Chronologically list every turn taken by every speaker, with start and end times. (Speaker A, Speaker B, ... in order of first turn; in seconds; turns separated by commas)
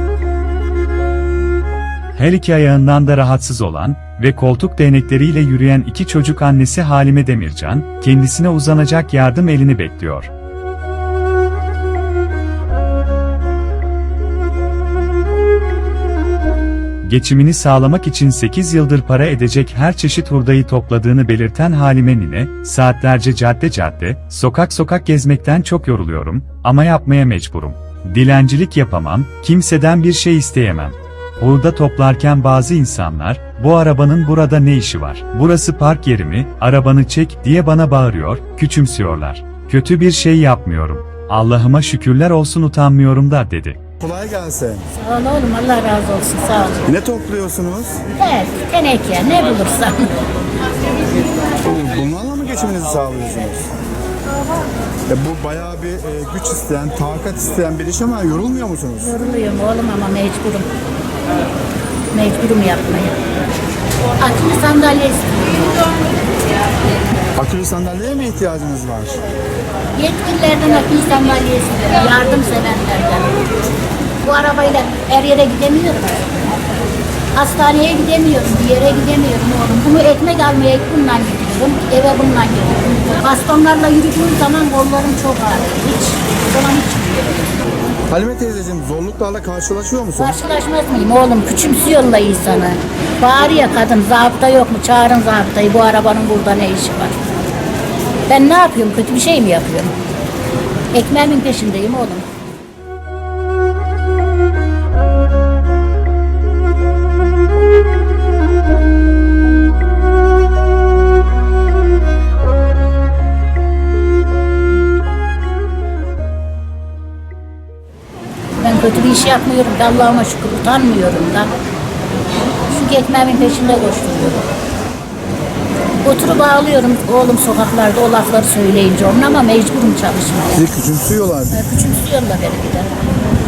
Speaker A: 2.1-10.3, Speaker A: 17.0-43.8, Speaker B: 44.0-44.9, Speaker C: 45.0-46.8, Speaker B: 46.9-48.0, Speaker C: 48.1-50.1, Speaker B: 51.6-53.7, Speaker B: 55.1-59.1, Speaker C: 59.0-60.7, Speaker C: 62.1-63.2, Speaker C: 64.2-65.7, Speaker B: 67.4-69.2, Speaker C: 70.0-73.4, Speaker C: 74.2-76.3, Speaker C: 77.3-87.5, Speaker B: 88.1-90.4, Speaker C: 90.2-97.2, Speaker C: 98.3-100.0, Speaker C: 100.9-102.3, Speaker C: 118.6-121.5, Speaker C: 122.7-124.5, Speaker C: 126.0-130.6, Speaker B: 130.6-131.6, Speaker C: 131.5-133.0